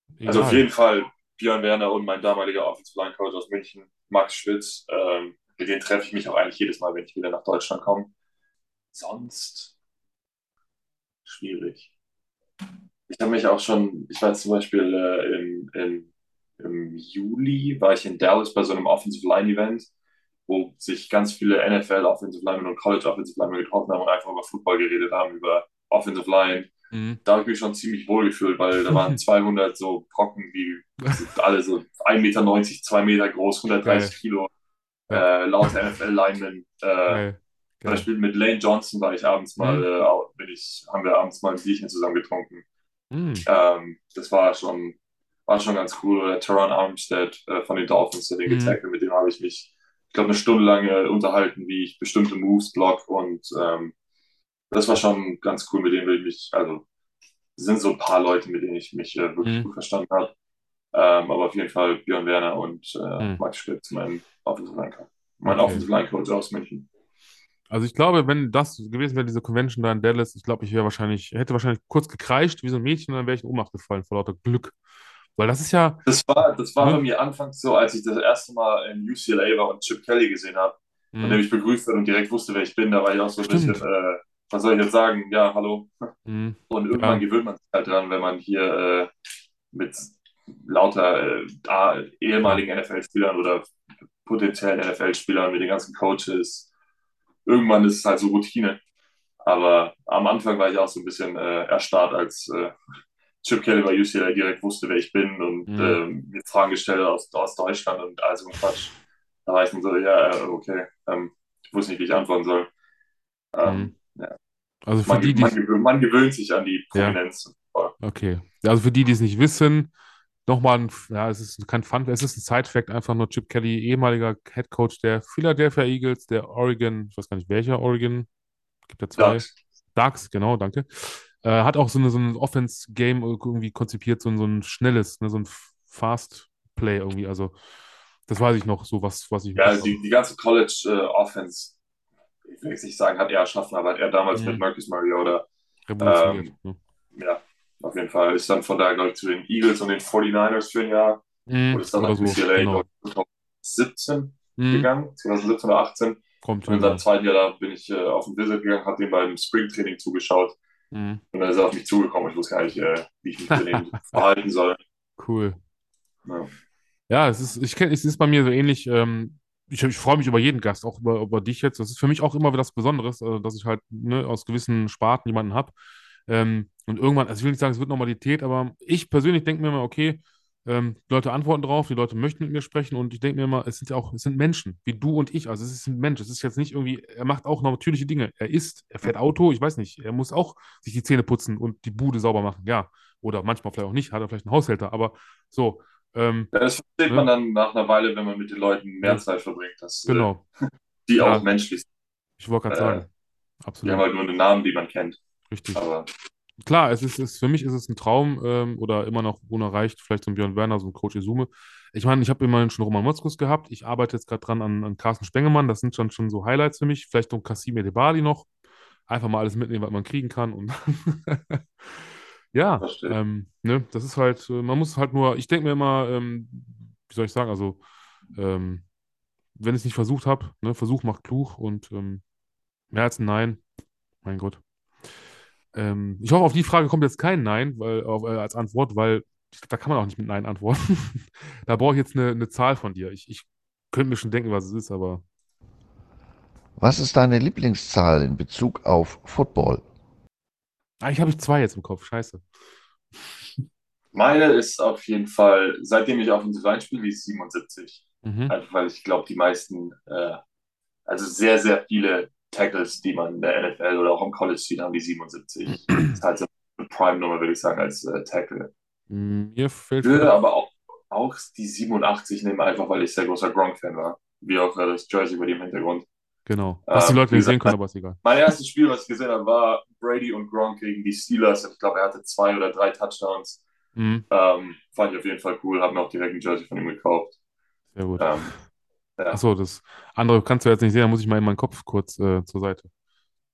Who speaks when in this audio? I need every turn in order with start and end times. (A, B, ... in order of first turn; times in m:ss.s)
0:00.2-0:00.6 A
0:00.2-0:08.1 B
0:08.9-0:09.7 B
0:11.2-0:11.9 B
0:13.1-0:19.9 B
0:20.5-0:26.7 B
0:26.9-0:27.2 A
0:27.2-0:34.5 B
0:28.9-0:29.2 A
0:33.8-0:34.1 A
0:35.1-0:35.7 A
0:35.1-0:37.2 B
0:37.1-0:38.0 A
0:37.8-0:42.6 B
0:39.6-0:39.8 A
0:43.1-0:43.4 A
0:43.4-0:45.0 B
0:45.5-0:53.9 B
0:48.5-0:48.8 A
0:54.7-0:56.8 B
0:57.6-1:00.3 B
0:59.4-0:59.7 A
1:00.9-1:06.9 B
1:05.4-1:05.9 A
1:07.7-1:14.7 A
1:15.4-1:16.0 A
1:16.0-1:25.9 B
1:21.1-1:21.4 A
1:23.4-1:23.8 A
1:26.2-1:27.2 A
1:26.7-1:29.1 B
1:29.7-1:33.7 B
1:34.2-1:36.7 B
1:37.4-1:38.8 B
1:39.4-1:42.7 B
1:43.4-1:48.9 B
1:45.7-1:46.0 A
1:49.4-1:52.7 B
1:53.5-1:54.3 B
1:53.6-1:53.9 A
1:54.8-1:55.6 A
1:55.0-1:57.9 B
1:56.9-1:57.2 A
1:58.0-1:59.9 A
2:00.4-2:08.3 A
2:08.9-2:17.5 A
2:09.2-2:09.5 B
2:18.3-2:20.0 A
2:19.5-2:21.8 B
2:22.5-2:25.4 B
2:24.3-2:24.6 A
2:25.9-2:26.8 A
2:26.0-2:26.5 B
2:27.1-2:40.6 B
2:31.5-2:32.8 A
2:34.6-2:34.9 A
2:36.4-2:37.0 A
2:40.9-2:41.2 A
2:41.3-2:44.8 B
2:45.2-2:45.6 A
2:46.2-2:46.5 B
2:47.1-2:55.7 A
2:56.3-3:16.5 A
3:16.5-3:20.3 B
3:20.1-3:20.4 A
3:21.1-3:21.9 B
3:21.2-3:21.5 A
3:22.4-3:23.1 A
3:22.7-3:23.0 B
3:23.6-3:24.0 A
3:23.8-3:25.2 B
3:25.5-3:25.8 A
3:25.7-3:26.1 B
3:26.6-3:38.5 A
3:39.1-3:42.0 A
3:42.5-3:47.8 A
3:42.8-3:43.2 B
3:48.3-3:48.8 A
3:49.6-3:52.2 A
3:52.9-3:53.6 A
3:54.2-3:54.6 A
3:55.7-4:05.2 A
4:06.8-4:09.8 C
4:11.0-4:12.4 A
4:14.1-4:20.4 B
4:18.2-4:18.5 A
4:21.1-4:28.7 B
4:29.1-4:30.3 A
4:30.0-4:36.0 B
4:36.4-4:38.2 A
4:36.9-4:43.6 B
4:44.0-4:44.2 A
4:44.3-4:47.3 B
4:48.0-4:48.6 A
4:48.2-4:48.5 B
4:49.3-4:52.9 A